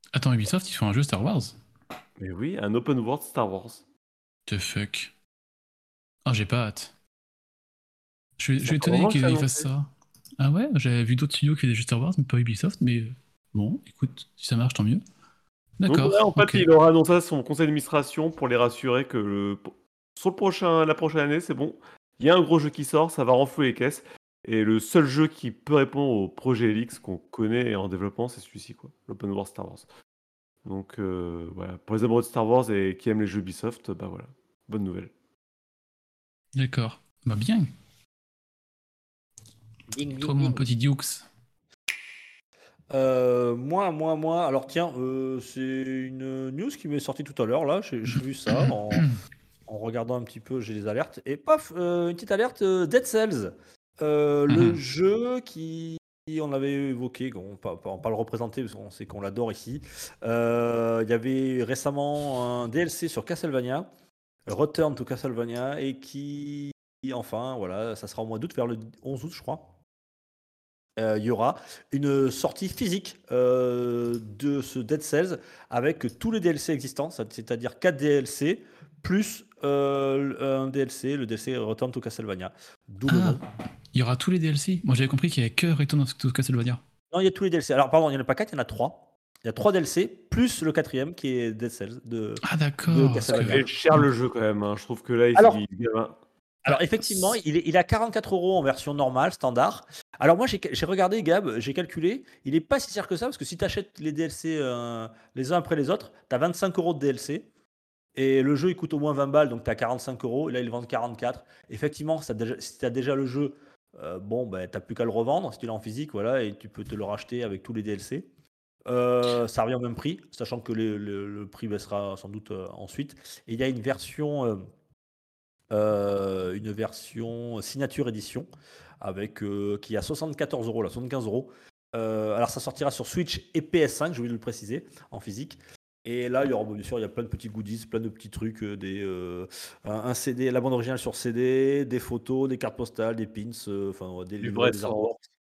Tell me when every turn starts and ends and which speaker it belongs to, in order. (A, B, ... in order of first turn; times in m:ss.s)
0:00.1-0:01.6 A
0:02.2-0:03.8 B
0:04.5-0:05.1 A
0:06.3-0:06.9 A
0:08.4-0:15.0 A
0:08.6-0:09.7 B
0:15.8-0:16.7 A
0:15.9-0:29.9 B
0:30.6-0:35.1 B
0:36.6-0:37.7 A
0:39.9-0:40.6 C
0:40.2-0:41.3 A
0:42.9-0:49.1 C
0:48.6-0:49.1 A
0:49.7-1:03.9 C
0:54.5-0:54.8 A
1:04.5-1:09.7 C
1:11.0-1:23.4 C
1:23.1-1:26.8 A
1:27.1-1:33.7 C
1:32.5-1:34.0 A
1:33.3-1:36.2 B
1:36.6-1:47.5 C
1:36.7-1:37.2 A
1:48.2-1:58.3 C
1:58.9-2:04.7 C
2:05.7-2:08.5 C
2:09.0-2:25.2 C
2:24.4-2:25.1 B